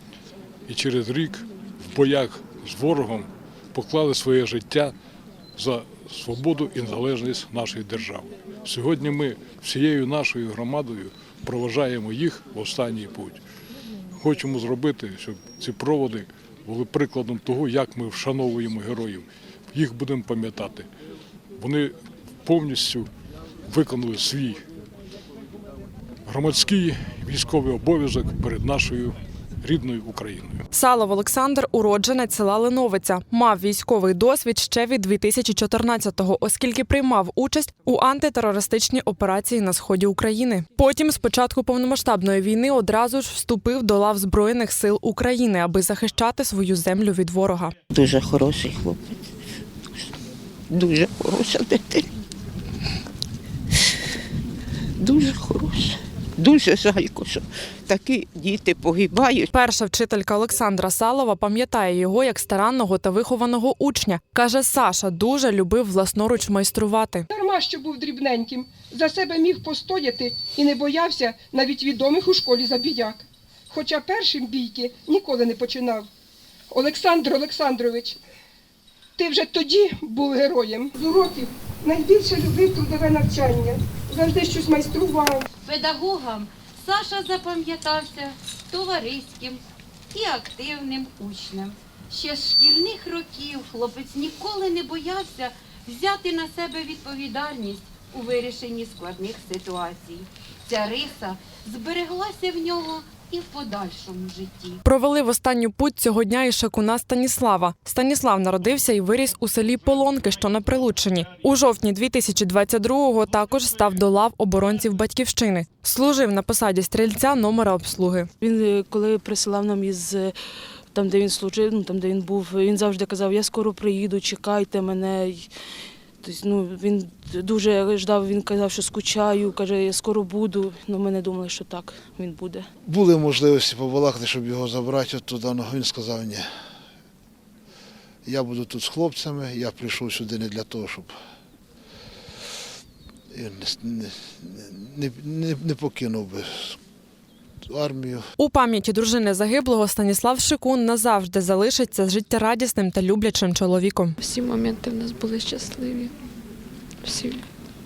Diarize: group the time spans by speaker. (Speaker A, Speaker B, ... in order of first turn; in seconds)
Speaker A: 0.7-4.9, 5.6-13.4, 14.2-20.9, 21.6-23.1, 23.7-24.6, 26.2-30.6
Speaker B: 30.7-47.8, 59.5-67.3, 104.8-118.3, 148.4-154.2
Speaker C: 47.9-49.2, 50.7-52.1, 55.0-59.5
Speaker D: 67.3-73.2, 73.7-76.0, 76.7-78.2, 79.2-85.4
Speaker E: 85.7-89.5, 90.1-104.8
Speaker F: 118.4-120.3, 120.9-125.5, 126.2-132.6
Speaker G: 132.8-136.4, 138.2-141.1, 143.3-146.8, 147.7-148.2
Speaker H: 154.2-156.1, 157.0-157.5